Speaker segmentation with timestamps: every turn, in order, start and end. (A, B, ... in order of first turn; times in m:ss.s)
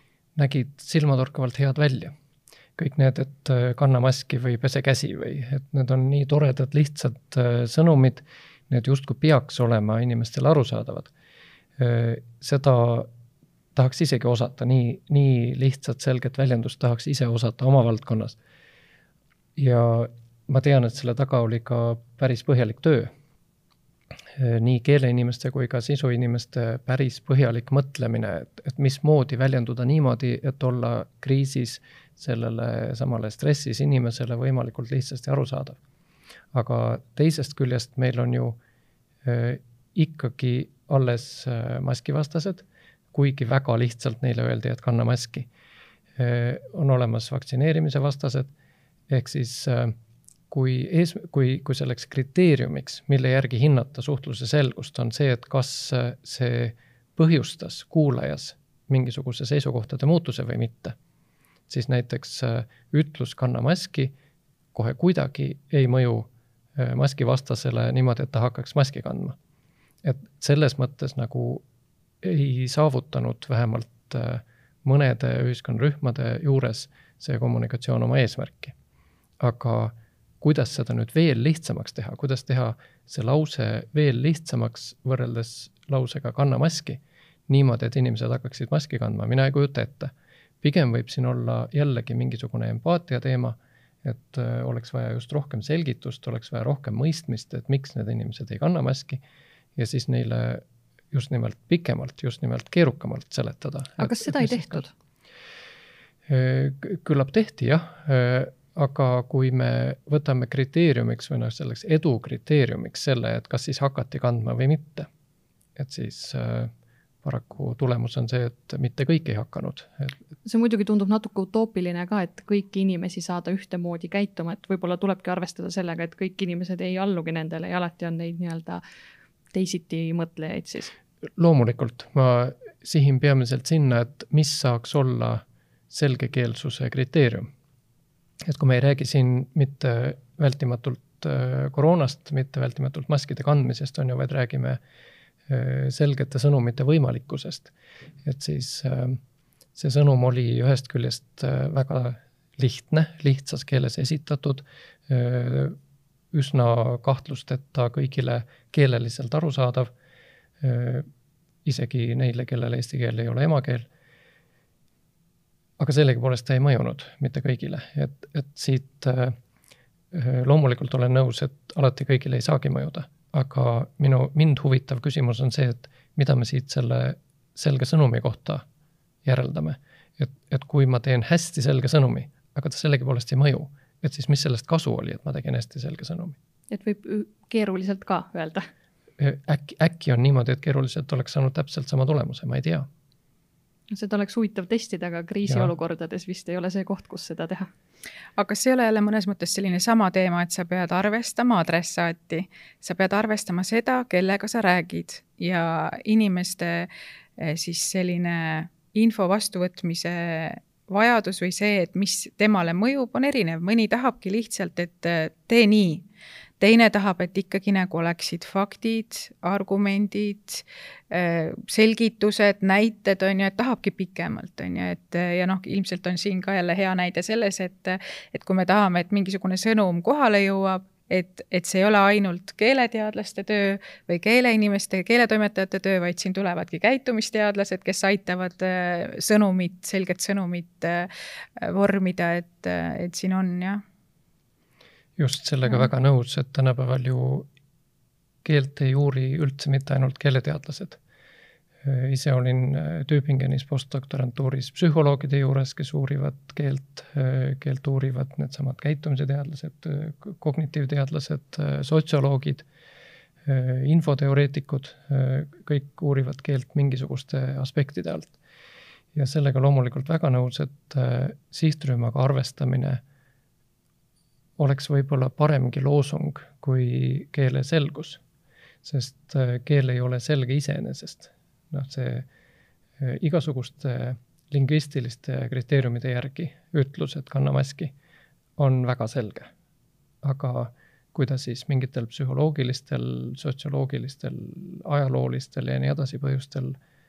0:00.4-0:02.1 A
0:02.8-0:11.1 A
0:11.8-0:13.1 A
0:13.8-0:18.4 A
0:19.6-0:23.1 A
0:24.4-0:35.8 A
0:36.5-0:38.6 A
0:39.2-0:45.5 A
0:46.2-0:48.5 A
0:49.1-0:50.0 A
0:50.5-1:01.0 A
1:01.7-1:04.1 A
1:04.7-1:09.4 A
1:10.0-1:11.6 A
1:12.2-1:18.7 A
1:19.4-1:39.2 A
1:39.8-1:44.8 A
1:44.0-1:44.9 B
1:46.3-1:55.1 A
1:55.8-1:56.7 A
1:57.2-2:00.1 A
2:00.5-2:08.8 B
2:09.5-2:10.9 B
2:11.4-2:17.5 A
2:18.4-2:24.8 A
2:25.5-2:27.7 A
2:28.2-2:29.2 A
2:29.8-2:35.8 A
2:36.3-2:39.9 A
2:40.6-2:41.1 A
2:41.6-2:43.9 A
2:45.8-2:49.4 A
2:50.1-2:58.6 A
2:59.2-3:06.4 A
3:06.7-3:08.7 B
3:09.2-3:12.9 A
3:13.9-3:17.7 B
3:15.5-3:15.7 A
3:18.4-3:36.0 C
3:36.6-4:03.8 C
4:05.2-4:07.5 A
4:08.4-4:11.0 A
4:11.8-4:22.6 A
4:23.5-4:28.3 A
4:29.1-4:33.0 A
4:34.6-4:38.2 A
4:38.8-4:42.3 A
4:43.0-4:47.9 A
4:48.6-4:49.5 A
4:50.2-4:56.8 A